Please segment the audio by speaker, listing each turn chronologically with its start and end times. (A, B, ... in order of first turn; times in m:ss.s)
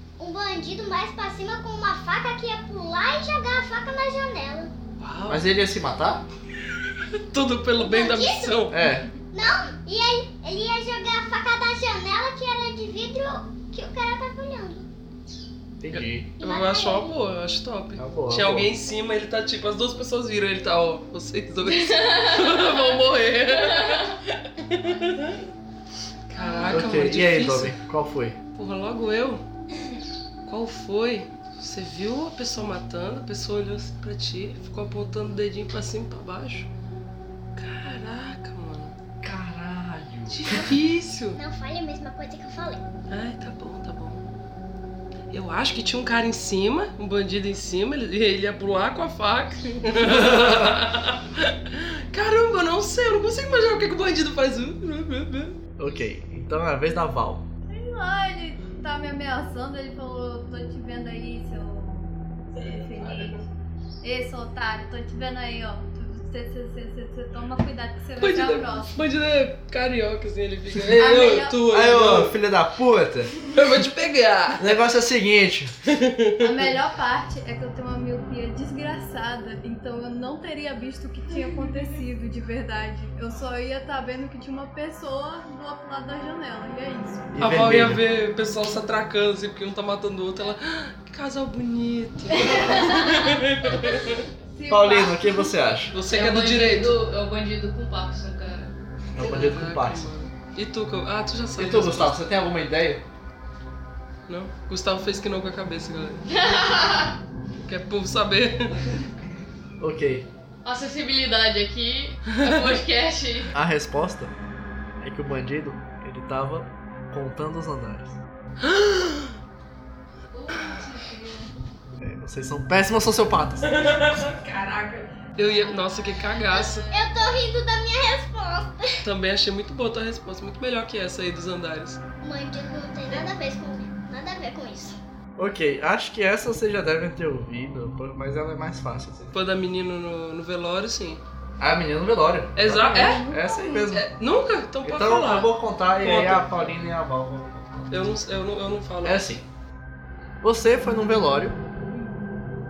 0:00.2-0:04.7 A
0:05.0-0:05.5 B
0:05.3-0:06.2 C
0:07.2-0:08.8 B
0:07.8-0:08.7 A
0:08.7-0:09.1 C
0:09.3-0:14.9 A
0:15.8-0:16.3 C
0:15.9-0:25.4 B
0:16.4-0:17.1 A
0:18.0-0:18.7 C
0:26.3-0:27.8 B
0:26.4-0:27.0 D
0:26.7-0:28.4 C
0:28.6-0:29.4 B
0:30.4-0:36.7 B
0:37.6-0:38.9 B
0:39.2-0:40.7 C
0:40.3-0:41.4 B
0:41.3-0:42.8 A
0:43.1-0:44.2 B
0:45.3-0:55.6 B
0:50.1-0:50.7 C
0:55.8-0:57.5 C
0:57.7-1:03.4 D
1:03.0-1:03.3 B
1:04.0-1:08.9 D
1:08.2-1:12.4 B
1:11.0-1:11.6 D
1:11.7-1:13.3 C
1:13.5-1:14.8 B
1:14.6-1:15.7 C
1:15.9-1:16.5 B
1:16.4-1:27.3 D
1:27.3-1:28.0 C
1:27.4-1:34.2 B
1:32.3-1:33.4 D
1:34.5-1:35.5 D
1:34.7-1:36.0 C
1:35.9-1:37.0 B
1:36.1-1:38.7 E
1:39.1-1:40.1 C
1:39.2-1:42.2 B
1:41.6-1:43.0 C
1:44.3-1:46.2 B
1:46.3-1:47.2 E
1:47.6-1:48.9 B
1:49.8-1:50.3 C
1:50.6-1:53.6 E
1:53.5-1:54.3 C
1:55.0-1:58.2 C
1:58.6-1:59.4 B
2:00.3-2:01.5 D
2:02.0-2:04.0 C
2:03.6-2:04.4 B
2:05.4-2:06.9 B
2:05.6-2:07.3 D
2:06.8-2:09.0 A
2:09.0-2:12.0 B
2:12.2-2:15.0 A
2:15.4-2:19.3 C
2:19.3-2:21.2 B
2:21.6-2:24.1 C
2:22.6-2:23.3 B
2:22.8-2:23.9 D
2:23.9-2:26.7 B
2:24.8-2:28.2 C
2:27.9-2:29.3 B
2:29.0-2:29.5 C
2:30.4-2:31.6 C
2:31.9-2:32.2 D